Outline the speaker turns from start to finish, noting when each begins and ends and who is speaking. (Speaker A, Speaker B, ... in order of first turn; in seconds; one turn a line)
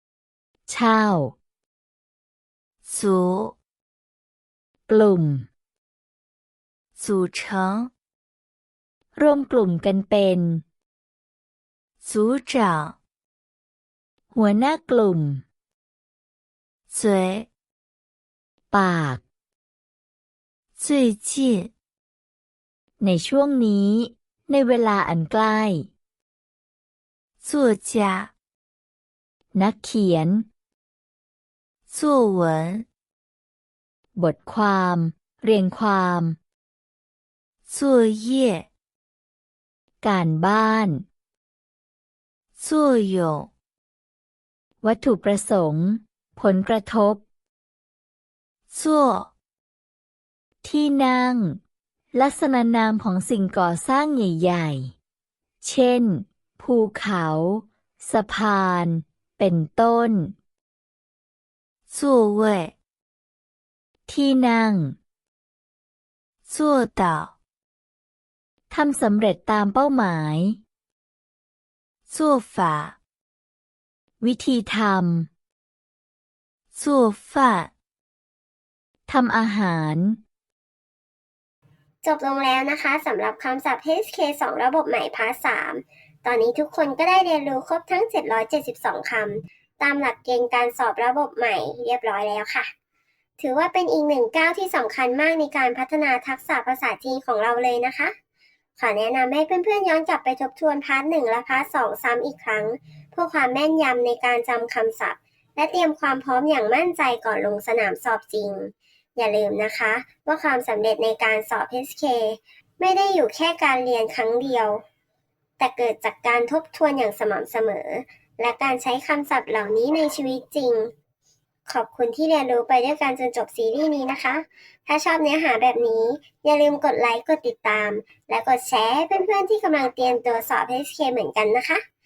Speaker A: 0.7-1.4
Speaker B: 2.8-3.5
Speaker A: 4.9-5.5
Speaker B: 7.0-7.9
Speaker A: 9.2-10.6
Speaker B: 12.0-13.0
Speaker A: 14.3-15.4
Speaker B: 16.9-17.5
Speaker A: 18.7-19.2
Speaker B: 20.8-21.7
Speaker A: 23.0-25.9
Speaker B: 27.4-28.3
Speaker A: 29.5-30.5
Speaker B: 31.9-32.9
Speaker A: 34.2-36.4
Speaker B: 37.7-38.7
Speaker A: 40.0-41.1
Speaker B: 42.6-43.5
Speaker A: 44.8-47.2
Speaker B: 48.7-49.3
Speaker A: 50.6-51.6
Speaker A: 52.1-54.9
Speaker A: 55.6-60.4
Speaker B: 61.9-62.7
Speaker A: 64.1-65.0
Speaker B: 66.5-67.3
Speaker A: 68.7-70.6
Speaker B: 72.1-73.0
Speaker A: 74.2-75.3
Speaker B: 76.7-77.7
Speaker A: 79.1-80.2
Speaker C: 82.0-92.7
Speaker C: 93.4-98.1
Speaker C: 98.8-114.8
Speaker C: 115.6-120.9
Speaker C: 121.7-131.8